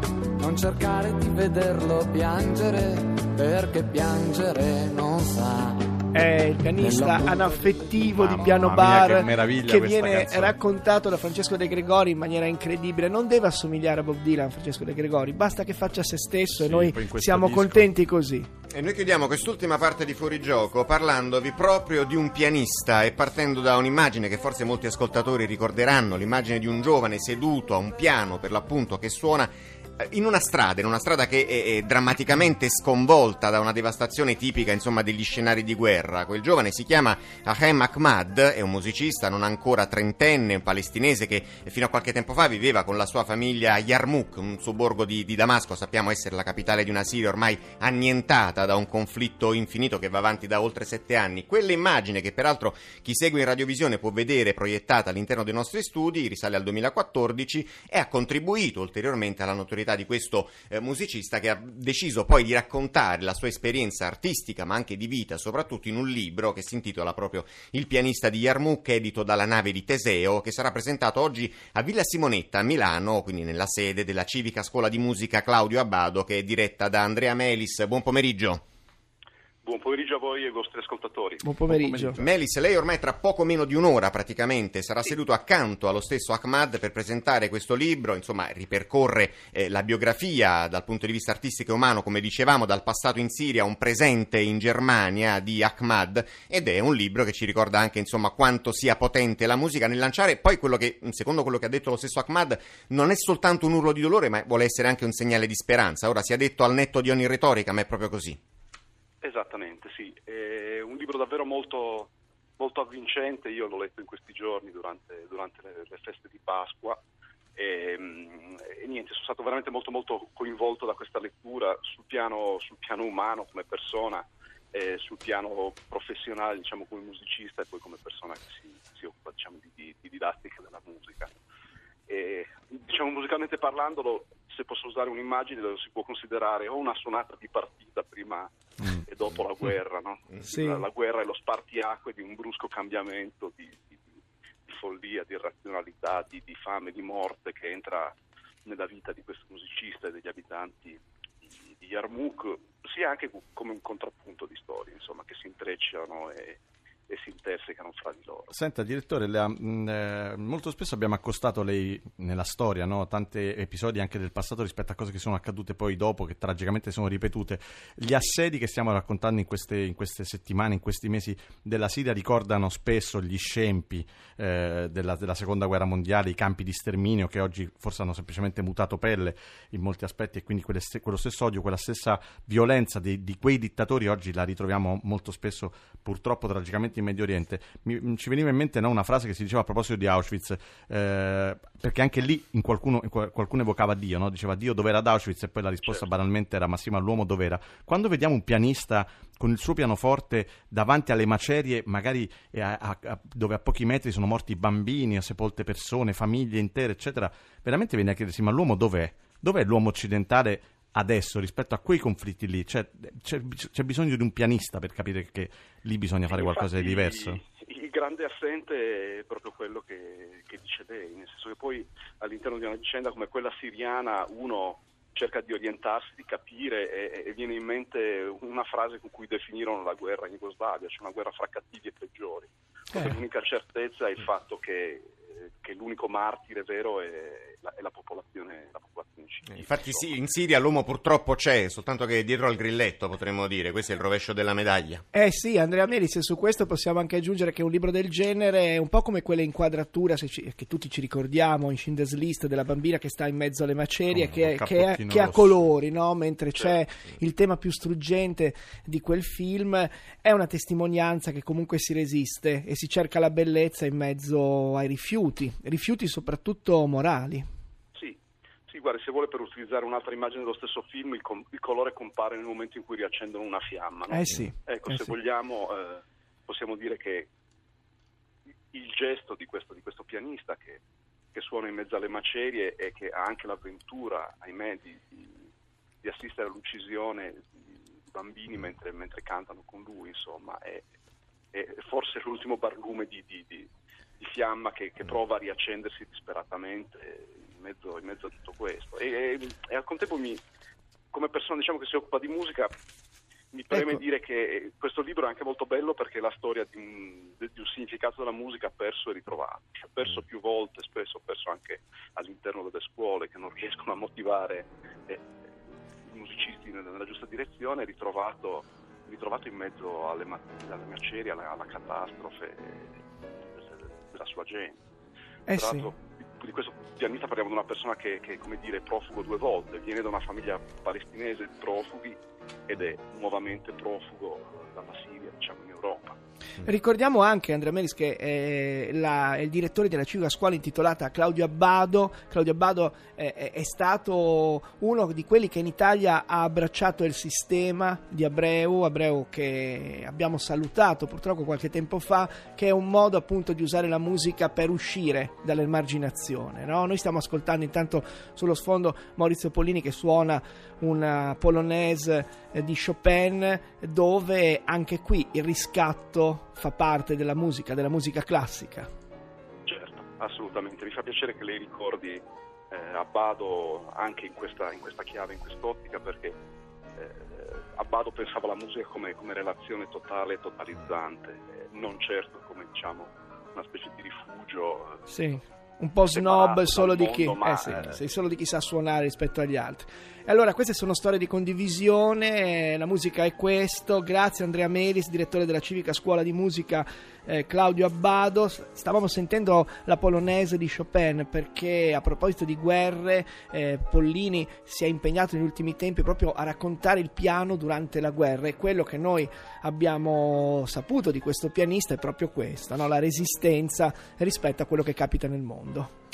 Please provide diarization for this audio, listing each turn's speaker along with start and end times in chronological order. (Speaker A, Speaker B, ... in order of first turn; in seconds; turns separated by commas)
Speaker A: 0.4-5.8, Speaker B: 6.1-18.5, Speaker A: 6.8-7.8, Speaker C: 8.2-10.6, Speaker C: 16.6-17.9, Speaker D: 18.7-78.6, Speaker E: 79.6-81.4, Speaker B: 81.4-82.2, Speaker C: 81.8-82.2, Speaker D: 82.2-108.4, Speaker E: 109.2-117.0, Speaker E: 117.5-131.3, Speaker E: 132.1-144.0, Speaker B: 140.4-140.8, Speaker E: 144.7-148.1, Speaker E: 148.7-158.5, Speaker C: 158.5-217.4, Speaker E: 216.3-240.1, Speaker D: 239.5-245.0, Speaker B: 245.1-267.4, Speaker C: 254.1-255.7, Speaker E: 267.9-277.3, Speaker B: 274.1-275.1, Speaker E: 278.7-280.8, Speaker E: 281.3-285.4, Speaker E: 286.0-290.9, Speaker E: 291.5-293.7, Speaker E: 294.2-300.4, Speaker E: 301.1-302.7, Speaker E: 303.5-315.2, Speaker B: 303.7-304.0, Speaker E: 316.1-323.0, Speaker E: 323.5-324.8, Speaker B: 325.5-325.9, Speaker E: 325.5-336.1, Speaker B: 336.6-368.9, Speaker E: 369.6-376.4, Speaker E: 377.0-385.0, Speaker B: 385.1-415.9, Speaker E: 386.1-387.8